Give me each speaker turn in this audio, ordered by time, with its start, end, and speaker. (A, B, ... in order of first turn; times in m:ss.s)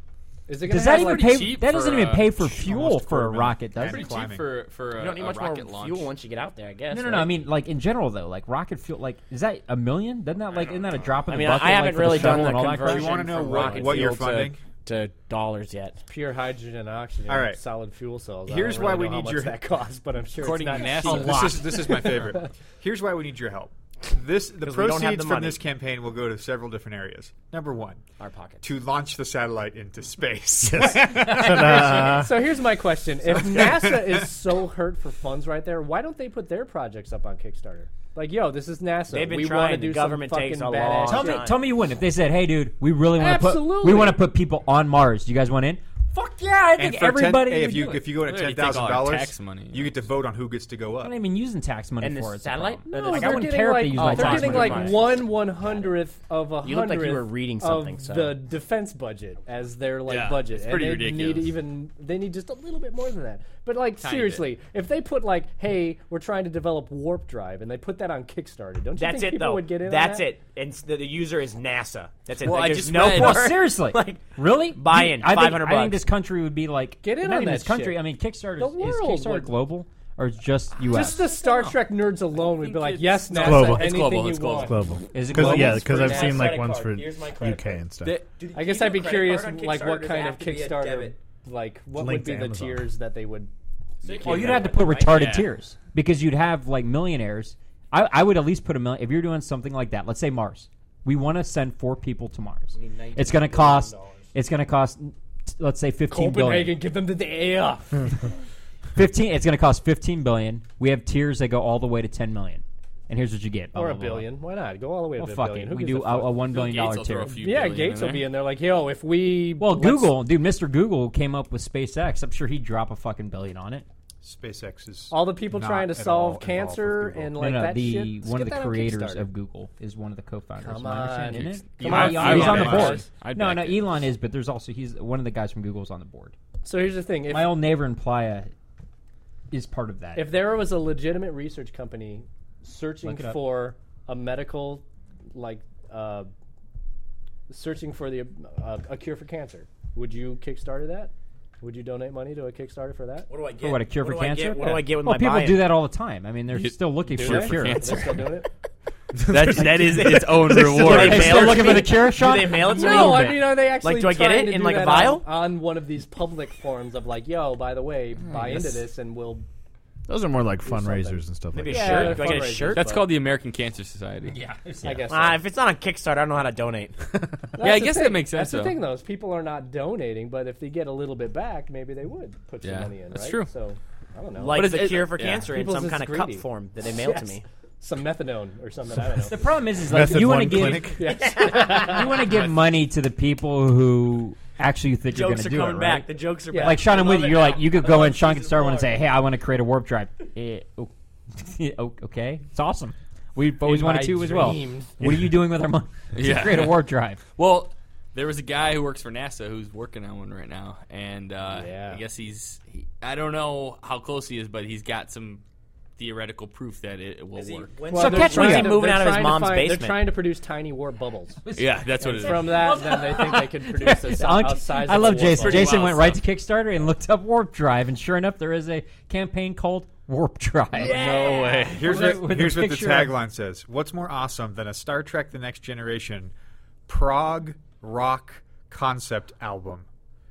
0:00.5-0:01.6 A
0:00.7-0:04.1 B
0:00.8-0:02.3 C
0:02.4-0:04.5 D
0:03.9-0:06.1 C
0:05.0-0:07.3 E
0:06.9-0:14.1 B
0:11.3-0:16.0 E
0:12.1-0:14.6 D
0:16.1-0:22.4 A
0:17.3-0:17.6 D
0:18.4-0:19.7 D
0:20.4-0:21.7 C
0:20.7-0:28.0 D
0:24.6-0:25.6 E
0:28.2-0:28.6 E
0:28.6-0:32.2 D
0:30.7-0:32.4 F
0:31.1-0:41.5 A
0:33.3-0:34.2 D
0:39.1-0:41.6 E
0:41.1-0:48.1 B
0:43.2-0:44.2 A
0:46.7-0:51.2 D
0:48.2-0:50.0 C
0:51.0-0:55.1 B
0:52.0-0:55.9 E
0:52.9-1:10.3 A
0:56.6-0:58.4 E
1:00.1-1:01.5 C
1:04.0-1:04.5 C
1:09.0-1:16.1 E
1:12.4-1:13.6 C
1:12.9-1:21.2 B
1:17.0-1:18.0 A
1:18.6-1:19.6 A
1:20.8-1:26.6 A
1:21.2-1:24.8 C
1:23.3-1:28.2 F
1:25.1-1:26.4 B
1:25.7-1:31.2 E
1:28.5-1:33.5 A
1:32.0-1:32.9 F
1:34.0-1:35.3 E
1:34.0-1:34.9 A
1:34.2-1:46.8 B
1:35.1-1:35.5 C
1:42.7-1:44.3 E
1:46.1-1:48.0 A
1:49.0-1:54.3 B
1:53.7-2:00.2 A
1:55.2-1:57.4 B
1:56.5-1:58.3 C
1:59.6-2:03.9 B
2:04.2-2:07.4 D
2:05.1-2:09.3 A
2:07.4-2:16.4 B
2:10.6-2:13.1 A
2:11.8-2:13.0 D
2:11.8-2:13.8 C
2:16.6-2:17.7 A
2:17.3-2:18.5 B
2:19.5-2:20.3 B
2:20.2-2:26.3 A
2:27.5-2:33.3 A
2:33.3-2:35.8 E
2:33.6-2:38.1 B
2:34.6-2:34.9 A
2:36.5-2:38.3 C
2:37.1-2:38.5 A
2:39.2-2:41.0 F
2:39.3-2:41.7 C
2:40.6-2:45.3 E
2:40.8-2:43.4 B
2:42.4-2:49.4 A
2:48.3-2:48.8 C
2:50.1-2:52.2 F
2:50.6-2:53.1 A
2:51.5-2:53.0 E
2:52.3-2:54.4 C
2:54.3-2:55.0 B
2:54.8-2:55.4 A
2:55.1-2:57.1 E
2:57.5-3:04.9 A
2:57.6-2:58.8 C
3:02.6-3:03.5 C
3:04.4-3:07.4 E
3:04.5-3:05.5 C
3:05.4-3:09.4 A
3:09.2-3:27.2 B
3:09.8-3:11.1 F
3:10.5-3:12.3 A
3:11.0-3:12.3 E
3:12.3-3:12.6 C
3:15.1-3:19.1 E
3:16.5-3:17.0 A
3:23.6-3:25.0 A
3:25.0-3:25.4 F
3:26.1-3:26.8 C
3:27.4-3:35.4 C
3:31.5-3:32.0 A
3:36.0-3:37.7 C
3:37.4-3:40.1 E
3:37.8-3:41.4 A
3:37.9-3:38.8 B
3:41.4-3:53.2 B
3:41.6-3:42.9 C
3:42.0-3:45.8 A
3:45.3-3:46.2 C
3:50.8-3:51.8 E
3:50.8-3:51.8 C
3:51.7-3:56.3 D
3:56.9-3:59.9 D